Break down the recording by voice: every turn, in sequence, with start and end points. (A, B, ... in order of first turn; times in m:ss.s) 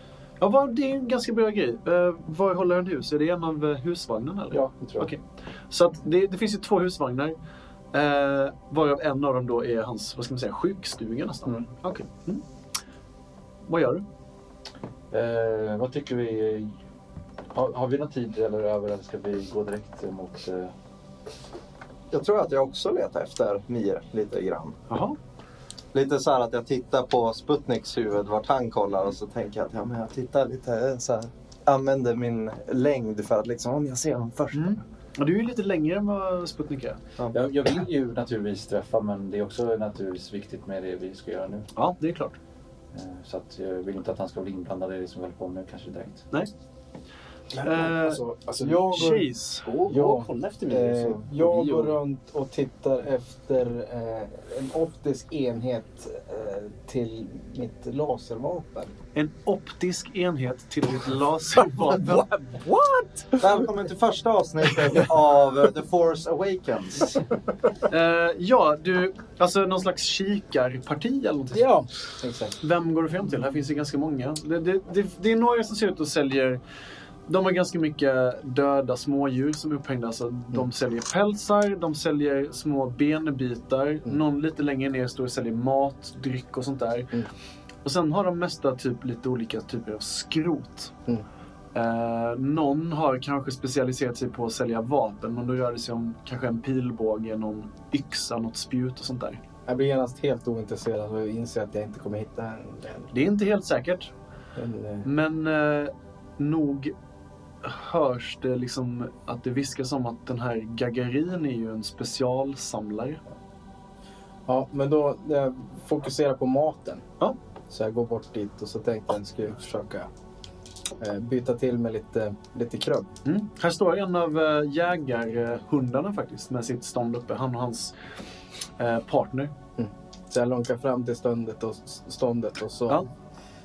0:00.4-0:07.4 A
0:04.5-0:05.1 B
0:07.9-0:12.4 A
0:13.7-0:14.0 A
0:15.1-0:16.7 B
0:17.5-0:20.7 B
0:22.1-0:24.8 C
0:24.9-0:25.2 A
0:25.9-0:34.8 C
0:34.5-0:37.0 A
0:37.3-0:41.7 B
0:41.7-0:42.4 A
0:42.9-0:46.2 B
0:47.5-0:52.0 D
0:47.6-0:48.2 A
0:48.6-0:49.2 E
0:48.9-0:49.7 A
0:49.8-0:58.9 E
0:59.2-1:02.3 A
1:01.7-1:03.4 D
1:03.4-1:07.2 C
1:07.9-1:11.7 A
1:11.5-1:12.6 E
1:12.6-1:16.6 A
1:17.3-1:27.2 A
1:27.8-1:30.9 A
1:31.7-1:39.4 A
1:39.7-1:43.1 E
1:43.1-1:44.1 A
1:44.6-1:45.1 E
1:45.0-1:46.9 A
1:47.6-1:53.2 A
1:54.5-1:57.0 E
1:57.7-2:00.1 E
2:01.0-2:03.1 E
2:03.2-2:07.9 A
2:08.8-2:09.5 A
2:09.8-2:13.1 E